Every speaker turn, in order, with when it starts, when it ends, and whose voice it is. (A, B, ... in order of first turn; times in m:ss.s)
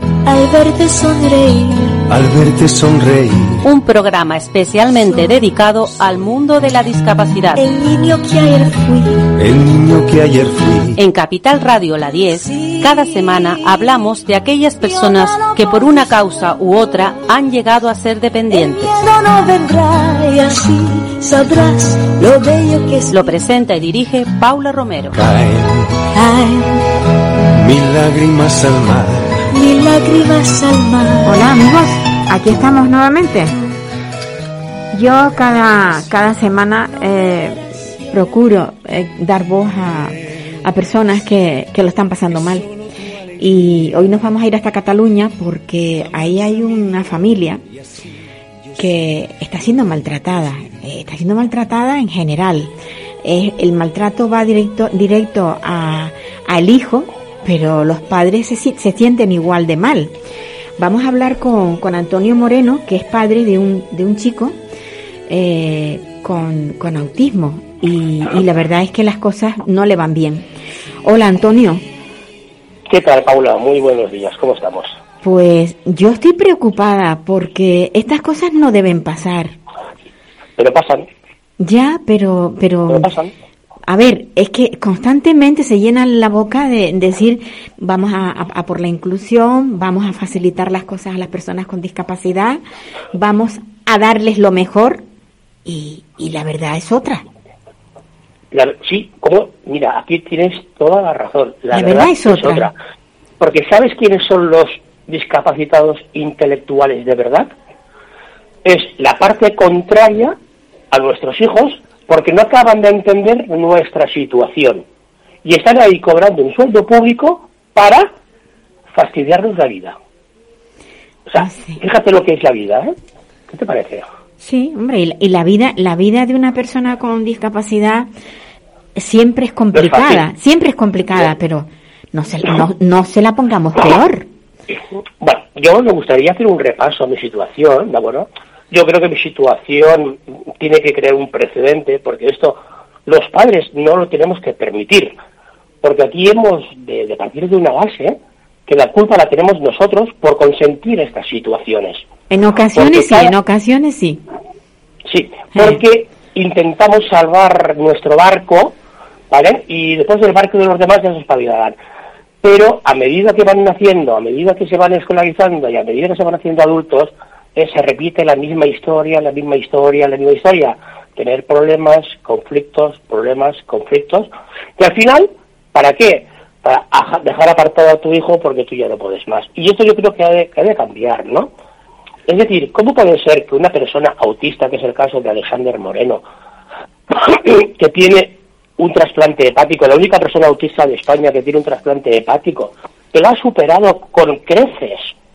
0:00.2-0:02.0 A
0:02.1-0:03.6 B
0:03.6-0:07.6 C
0:07.5-0:09.2 A
0:09.4-0:11.0 B
0:11.0-0:18.9 C
0:12.5-0:13.0 A
0:14.8-0:16.0 A
0:18.5-0:23.1 A
0:23.1-0:25.2 C
0:25.1-0:26.0 B
0:26.1-0:26.8 A
0:27.6-0:29.4 B
0:29.5-0:31.4 A
0:31.2-0:33.5 D
0:34.9-0:42.7 D
0:43.4-0:47.6 D
0:48.7-1:00.1 D
1:00.8-1:04.6 D
1:05.3-1:10.5 D
1:11.0-1:11.8 D
1:12.9-1:15.0 E
1:15.2-1:19.6 D
1:20.6-1:21.0 E
1:21.6-1:23.1 D
1:22.9-1:23.3 E
1:23.8-1:32.6 D
1:33.1-1:35.0 D
1:35.6-1:37.2 D
1:38.5-1:42.7 E
1:41.7-1:42.7 D
1:43.4-1:47.5 E
1:48.6-1:50.4 E
1:50.9-1:54.8 E
1:55.4-1:58.1 E
1:58.9-2:00.0 E
2:01.3-2:02.9 E
2:01.4-2:01.8 D
2:03.5-2:04.0 E
2:04.4-2:08.1 D
2:08.9-2:14.3 D
2:09.7-2:10.2 E
2:14.7-2:25.1 E
2:25.8-2:32.0 E
2:32.3-2:34.2 D
2:32.7-2:33.3 E
2:35.1-2:38.7 E
2:39.3-2:41.8 E
2:42.4-3:01.5 E
3:02.3-3:06.2 E
3:07.1-3:15.1 E